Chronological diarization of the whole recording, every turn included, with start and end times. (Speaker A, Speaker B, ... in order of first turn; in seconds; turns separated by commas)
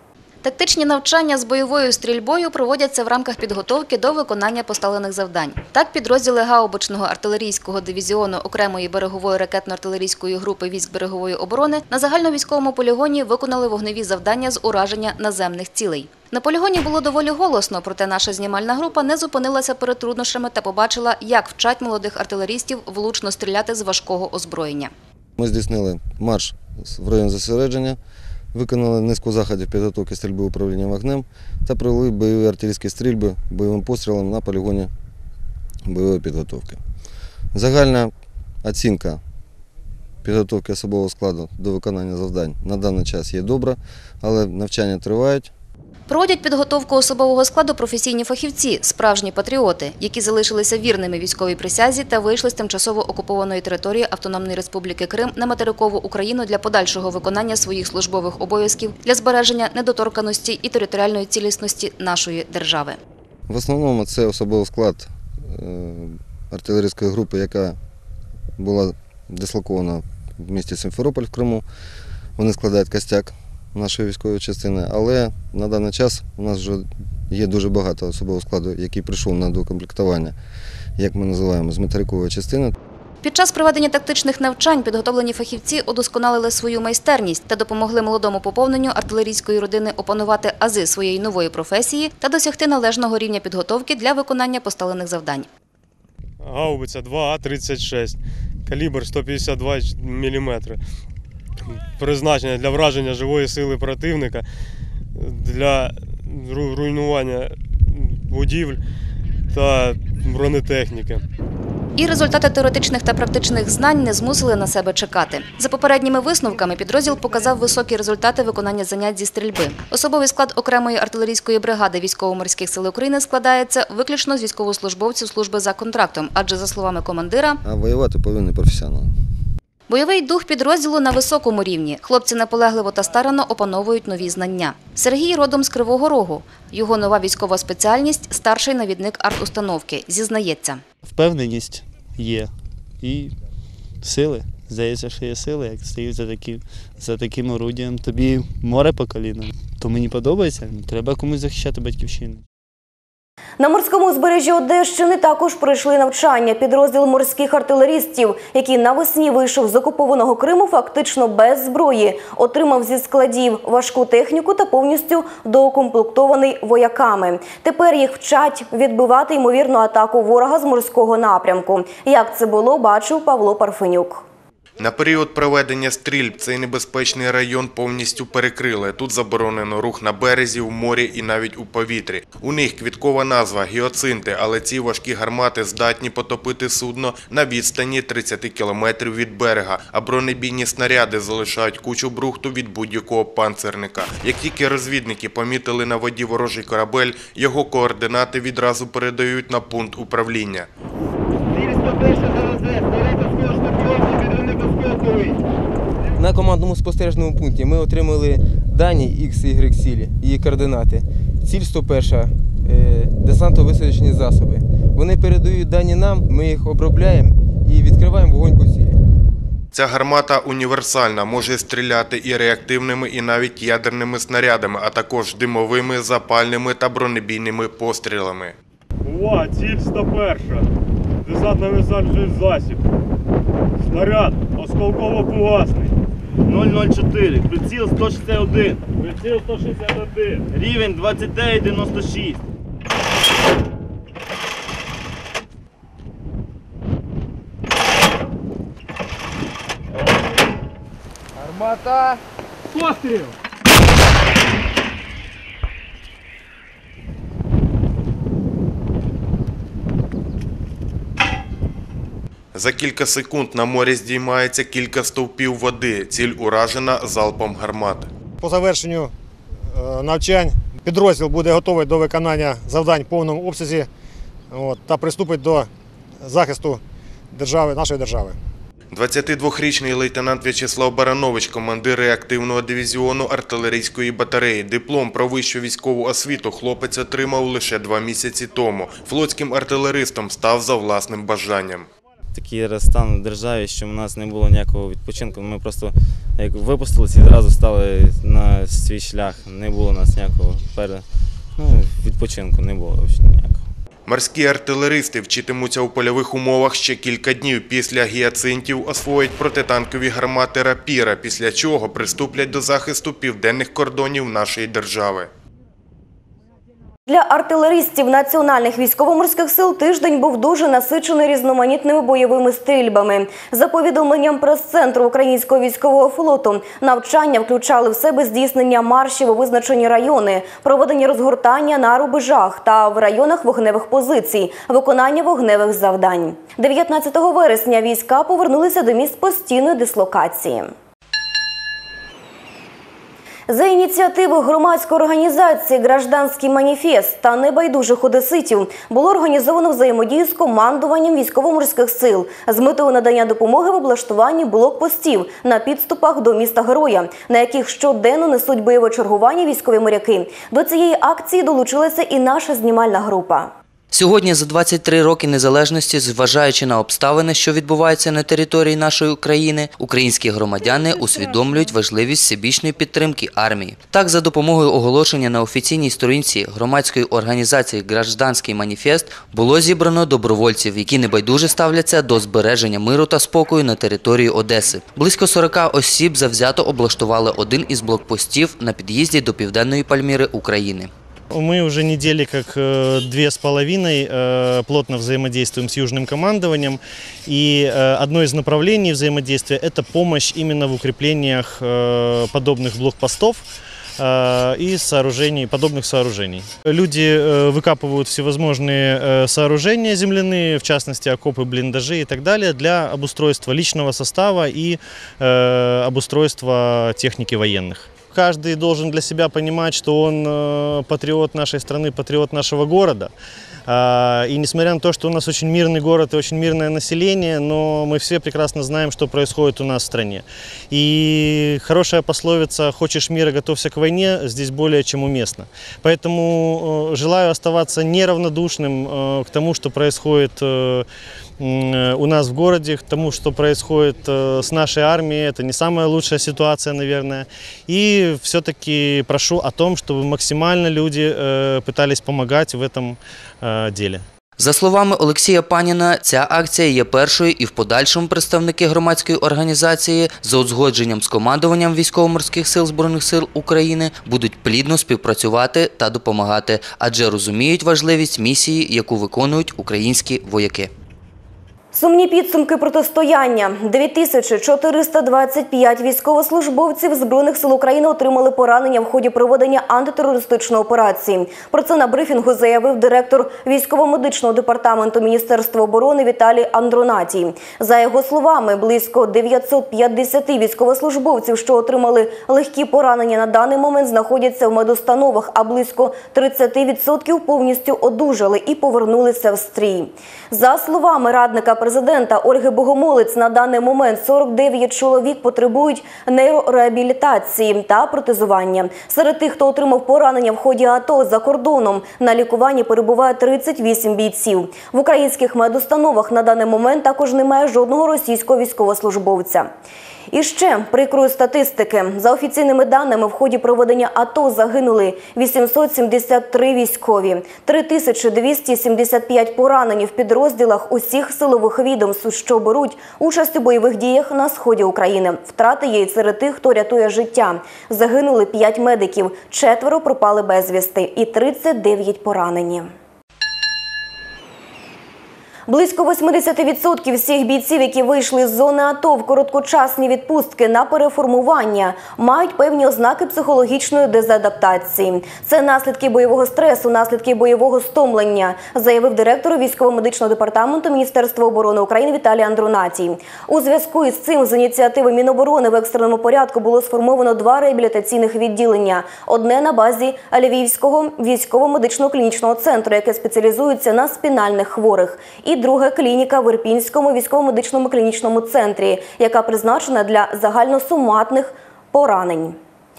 Speaker A: 0.4-24.9, Speaker B: 25.4-28.0, Speaker B: 28.5-34.9, Speaker B: 35.8-36.8, Speaker B: 37.5-38.1, Speaker B: 38.6-39.2, Speaker B: 40.2-45.5, Speaker A: 46.1-63.0, Speaker B: 63.5-67.8, Speaker B: 68.6-71.6, Speaker B: 72.4-80.3, Speaker B: 81.0-82.8, Speaker A: 83.2-95.5, Speaker C: 96.4-100.8, Speaker C: 101.7-104.5, Speaker C: 105.1-108.8, Speaker C: 109.5-111.2, Speaker A: 112.0-127.6, Speaker B: 127.6-129.1, Speaker A: 129.9-140.8, Speaker D: 141.0-143.3, Speaker D: 144.0-152.4, Speaker E: 153.6-174.2, Speaker F: 174.8-200.7, Speaker G: 204.9-205.2, Speaker G: 206.1-219.0, Speaker F: 219.7-228.5, Speaker C: 229.0-230.7, Speaker C: 231.2-232.8, Speaker C: 233.8-235.9, Speaker H: 236.4-238.8, Speaker C: 238.9-240.4, Speaker H: 240.5-242.4, Speaker F: 262.5-268.1, Speaker I: 268.4-269.1, Speaker I: 269.7-273.9, Speaker I: 274.5-275.7, Speaker I: 276.2-276.8, Speaker I: 277.3-278.4, Speaker F: 278.9-291.9, Speaker J: 292.3-301.0, Speaker J: 301.6-303.6, Speaker F: 304.1-315.3, Speaker E: 317.1-340.7, Speaker E: 343.5-363.5, Speaker K: 363.9-390.9, Speaker L: 391.3-403.5, Speaker L: 404.0-423.1, Speaker L: 423.7-440.9, Speaker L: 441.4-454.0, Speaker K: 454.4-470.7, Speaker E: 471.7-519.5, Speaker E: 520.1-542.7, Speaker E: 545.5-582.4